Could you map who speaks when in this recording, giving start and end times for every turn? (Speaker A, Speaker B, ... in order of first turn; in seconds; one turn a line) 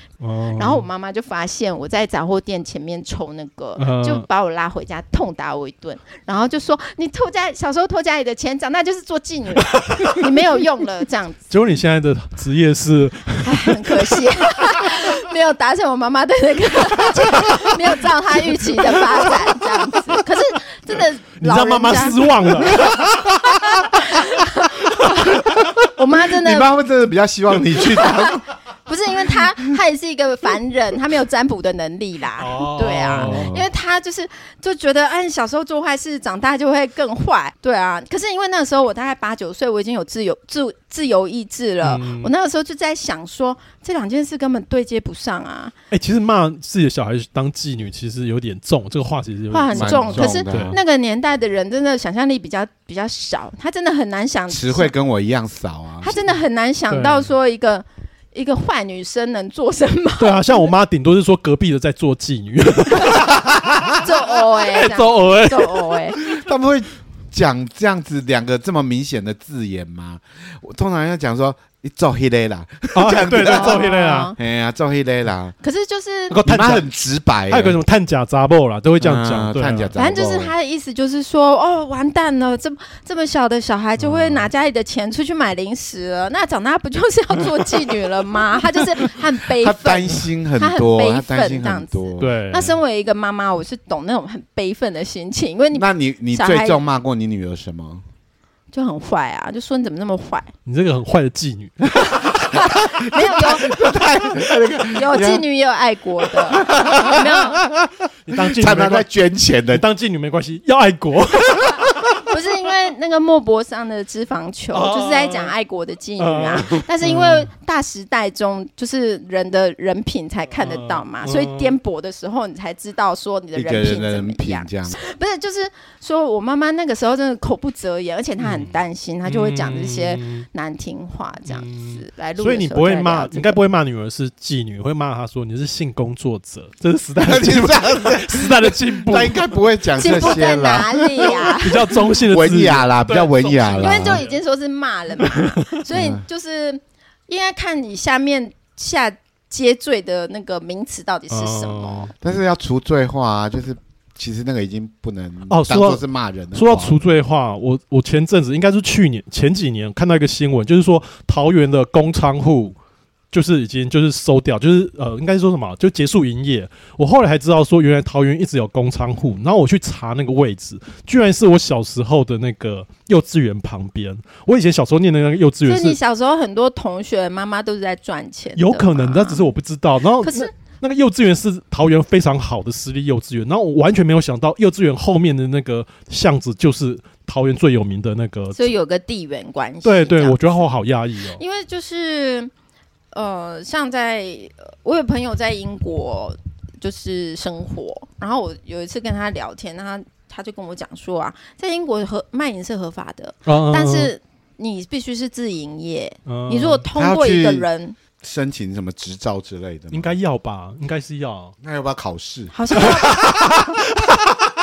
Speaker A: 0.2-0.9
Speaker B: 0.6-11.4
Speaker A: 3.8-4.3
Speaker A: 9.6-10.3
Speaker A: 11.5-14.2
Speaker B: 13.4-22.9
Speaker A: 14.7-14.9
Speaker A: 17.1-17.9
Speaker A: 18.5-19.5
Speaker A: 21.4-23.2
Speaker C: 22.8-23.2
Speaker B: 23.6-26.7
Speaker C: 26.3-28.5
Speaker B: 28.0-45.7
Speaker A: 32.4-33.6
Speaker C: 33.1-33.6
Speaker A: 41.8-42.3
Speaker A: 45.9-50.8
Speaker B: 49.5-54.9
Speaker C: 49.7-50.8
Speaker C: 54.5-56.2
Speaker B: 56.0-60.7
Speaker A: 56.9-57.3
Speaker A: 60.2-63.9
Speaker C: 63.4-63.9
Speaker B: 64.0-66.2
Speaker A: 64.5-66.3
Speaker C: 66.2-75.5
Speaker A: 72.9-74.3
Speaker B: 73.4-74.4
Speaker B: 75.6-76.4
Speaker A: 76.3-76.9
Speaker C: 76.4-77.8
Speaker A: 77.5-79.9
Speaker C: 79.0-80.5
Speaker B: 80.0-96.8
Speaker A: 84.0-84.5
Speaker C: 89.6-92.3
Speaker A: 92.2-92.8
Speaker C: 95.7-98.0
Speaker B: 98.7-100.5
Speaker A: 100.7-101.8
Speaker B: 102.1-104.0
Speaker C: 103.1-105.4
Speaker B: 104.9-107.6
Speaker C: 106.5-109.8
Speaker A: 108.2-109.1
Speaker A: 109.7-112.2
Speaker B: 112.2-133.6
Speaker A: 114.7-115.5
Speaker A: 116.2-117.5
Speaker A: 120.6-121.8
Speaker C: 123.5-124.9
Speaker A: 128.4-128.7
Speaker A: 129.2-130.5
Speaker A: 131.4-139.4
Speaker C: 137.2-144.2
Speaker B: 140.0-141.8
Speaker A: 141.5-144.4
Speaker B: 143.8-152.1
Speaker A: 145.2-145.6
Speaker C: 145.9-146.2
Speaker A: 151.3-152.1
Speaker C: 152.2-156.9
Speaker A: 155.5-162.8
Speaker A: 163.3-176.0
Speaker B: 175.7-179.4
Speaker A: 178.6-188.7
Speaker B: 180.2-180.5
Speaker B: 188.5-190.7
Speaker A: 189.8-191.4
Speaker B: 191.3-192.5
Speaker B: 193.1-208.0
Speaker A: 203.4-204.1
Speaker A: 206.2-206.8
Speaker C: 206.9-207.7
Speaker C: 208.2-210.1
Speaker A: 209.9-211.5
Speaker C: 211.6-214.2
Speaker B: 212.5-213.4